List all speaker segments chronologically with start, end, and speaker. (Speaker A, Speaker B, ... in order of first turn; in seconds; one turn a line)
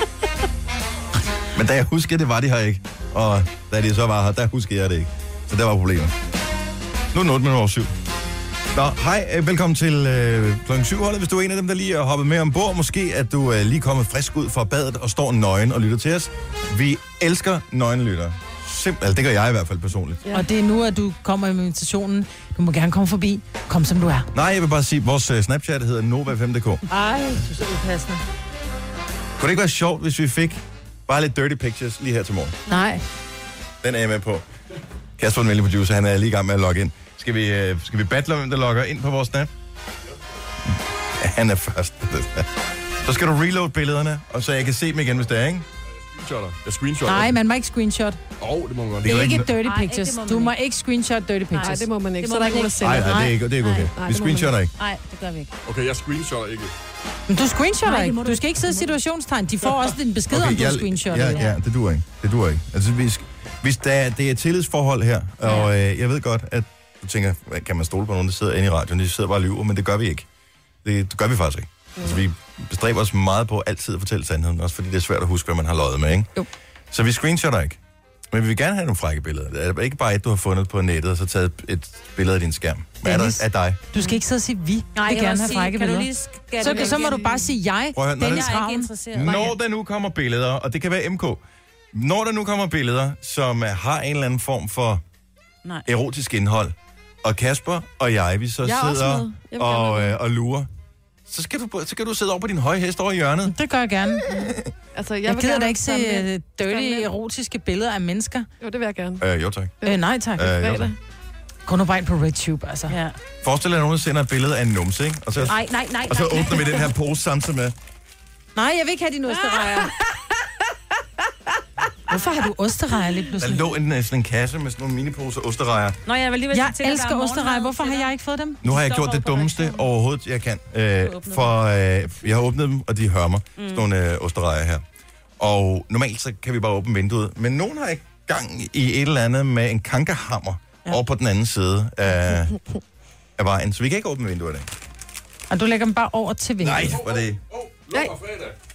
Speaker A: 1.5-6.1
Speaker A: 7.1-7.9
Speaker A: 8.7-20.2
Speaker B: 20.3-24.3
Speaker A: 24.3-26.9
Speaker B: 26.9-28.2
Speaker A: 29.4-32.6
Speaker B: 32.7-33.0
Speaker A: 33.8-34.5
Speaker A: 35.2-39.5
Speaker C: 40.1-40.3
Speaker A: 41.2-45.7
Speaker C: 45.9-47.4
Speaker B: 47.1-48.2
Speaker C: 48.4-49.2
Speaker A: 49.0-49.5
Speaker B: 49.0-51.8
Speaker D: 49.3-50.5
Speaker D: 51.5-53.9
Speaker E: 51.6-53.3
Speaker A: 52.8-54.7
Speaker E: 54.0-54.5
Speaker D: 54.8-55.5
Speaker C: 55.7-56.7
Speaker B: 57.3-61.4
Speaker D: 57.8-59.0
Speaker A: 60.3-70.3
Speaker D: 65.4-65.7
Speaker A: 70.8-76.3
Speaker A: 76.9-77.8
Speaker A: 78.3-83.8
Speaker B: 83.0-88.9
Speaker D: 84.0-84.2
Speaker D: 85.0-87.3
Speaker E: 86.6-87.5
Speaker A: 88.0-88.5
Speaker D: 88.2-89.5
Speaker A: 89.1-91.4
Speaker E: 89.2-89.5
Speaker A: 91.9-95.0
Speaker A: 95.9-100.7
Speaker E: 98.6-100.2
Speaker A: 101.3-103.5
Speaker B: 103.5-104.3
Speaker A: 104.3-104.7
Speaker E: 105.0-107.1
Speaker B: 105.3-108.5
Speaker E: 108.6-109.2
Speaker A: 109.2-109.8
Speaker E: 109.8-111.0
Speaker B: 109.8-110.6
Speaker A: 110.4-110.9
Speaker B: 111.7-113.0
Speaker D: 112.9-113.2
Speaker A: 113.4-115.6
Speaker D: 115.4-116.9
Speaker A: 116.1-117.8
Speaker B: 118.5-119.9
Speaker B: 122.1-123.7
Speaker A: 123.4-126.0
Speaker D: 126.1-128.1
Speaker B: 126.5-128.6
Speaker A: 128.6-134.8
Speaker D: 128.6-129.8
Speaker D: 131.0-131.6
Speaker D: 133.6-133.8
Speaker A: 135.4-142.6
Speaker A: 143.4-144.7
Speaker B: 145.5-147.0
Speaker A: 146.6-147.4
Speaker C: 146.7-148.6